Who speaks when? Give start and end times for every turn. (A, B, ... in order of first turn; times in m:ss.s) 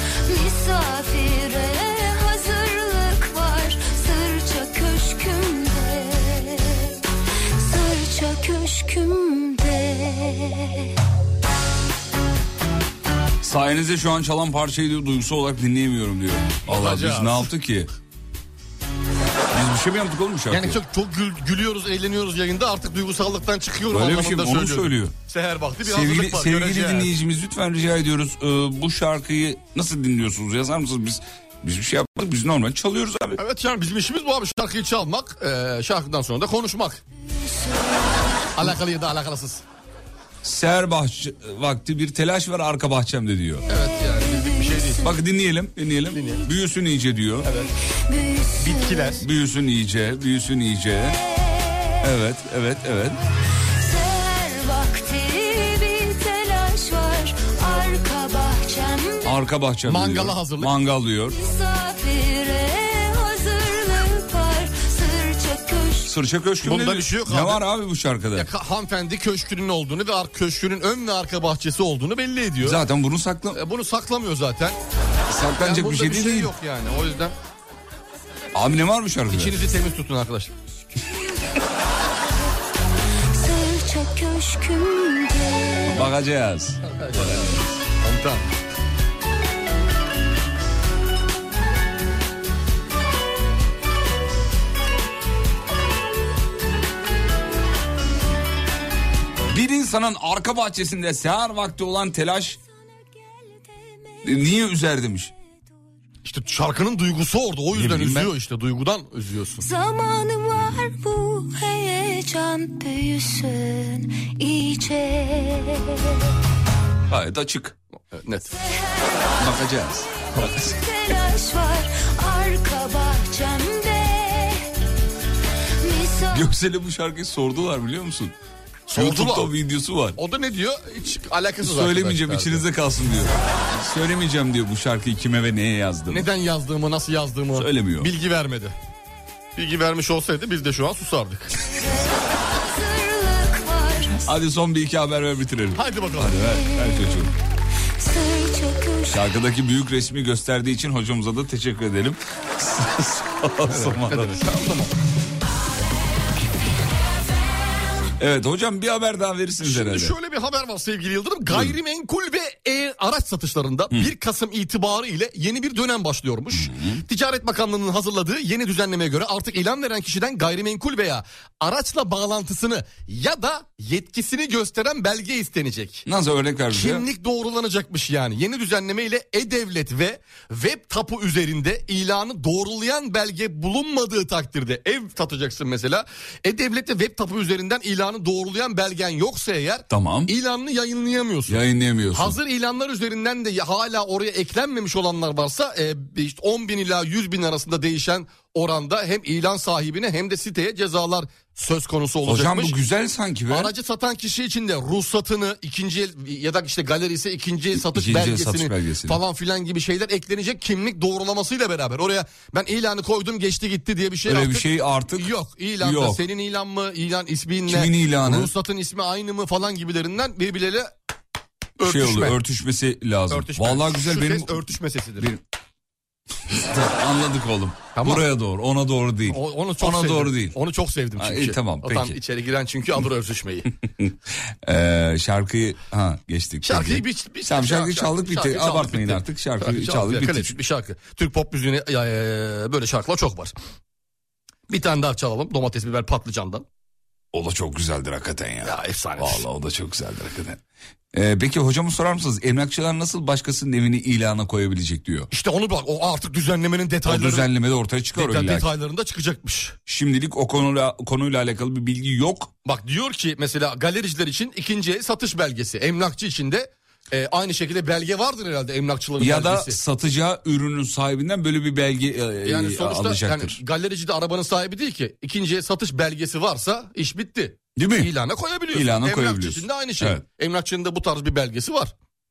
0:00.3-0:06.9 A
0:07.6-0:10.9 A
0:13.4-0:17.9 B
0:16.7-0:17.5 C
0:19.5-0:20.8 B
0:20.5-0:27.1 C
0:23.9-0:25.1 B
0:25.8-0:33.4 B
0:33.4-0:37.0 C
0:37.3-0:38.5 A
0:38.6-0:39.6 C
0:40.4-0:43.6 B
0:43.7-0:45.1 C
0:43.9-0:45.1 A
0:45.0-0:47.5 B
0:46.1-0:46.4 C
0:47.4-0:47.7 C
0:48.1-0:49.2 A
0:48.6-0:49.2 C
0:49.2-0:51.2 B
0:51.2-0:52.0 A
0:52.0-0:53.2 B
0:53.8-0:59.4 A
0:59.2-1:01.4 B
0:59.8-1:00.7 C
1:01.3-1:06.1 A
1:06.0-1:08.5 B
1:06.6-1:07.6 C
1:08.3-1:12.8 C
1:12.6-1:13.6 B
1:13.5-1:14.8 C
1:15.3-1:16.5 B
1:15.6-1:17.3 C
1:18.5-1:19.6 B
1:19.3-1:20.5 C
1:23.3-1:26.0 A
1:25.9-1:27.6 B
1:26.9-1:28.5 C
1:39.5-1:42.6 B
1:43.5-1:44.4 A
1:44.2-1:45.3 B
1:46.2-1:49.6 C
1:47.7-1:48.3 B
1:49.6-1:56.2 A
1:57.1-1:57.8 B
1:58.1-1:58.5 C
1:58.6-1:59.6 A
1:59.4-2:00.8 B
2:00.4-2:04.7 A
2:05.8-2:06.5 A
2:06.3-2:08.3 B
2:08.9-2:09.5 C
2:08.9-2:10.2 B
2:10.2-2:12.6 C
2:11.6-2:16.3 B
2:16.1-2:18.7 C
2:17.5-2:18.1 B
2:19.6-2:21.5 C
2:21.8-2:24.3 A
2:24.2-2:27.3 B
2:25.7-2:26.4 C
2:26.5-2:27.3 A
2:28.0-2:29.2 A
2:29.1-2:34.4 B
2:33.7-2:34.9 C
2:38.2-2:40.1 B
2:39.6-2:56.0 C
2:41.5-2:41.8 B
2:46.5-2:47.0 B
2:56.0-2:57.0 B
2:56.7-3:11.6 C
3:09.9-3:10.3 B
3:11.5-3:12.4 B
3:12.1-3:22.8 C
3:22.2-3:23.7 B
3:23.5-3:40.9 C
3:27.8-3:29.2 B
3:34.2-3:36.2 B
3:37.7-3:38.5 B
3:41.8-3:42.4 C
3:41.8-3:44.6 B
3:43.3-3:45.3 C
3:46.5-3:50.6 B
3:47.9-3:48.2 C
3:49.3-3:53.7 C
3:51.2-3:52.2 B
3:54.6-4:00.6 B
3:56.6-4:03.5 C
4:04.7-4:06.6 C
4:07.3-4:15.3 B
4:08.6-4:09.4 C
4:15.3-4:17.5 C
4:17.0-4:18.7 B
4:18.1-4:19.8 C
4:19.9-4:22.5 B
4:22.6-4:29.8 C
4:29.2-4:33.6 B
4:32.4-4:41.9 C
4:37.8-4:38.1 B
4:38.7-4:40.2 B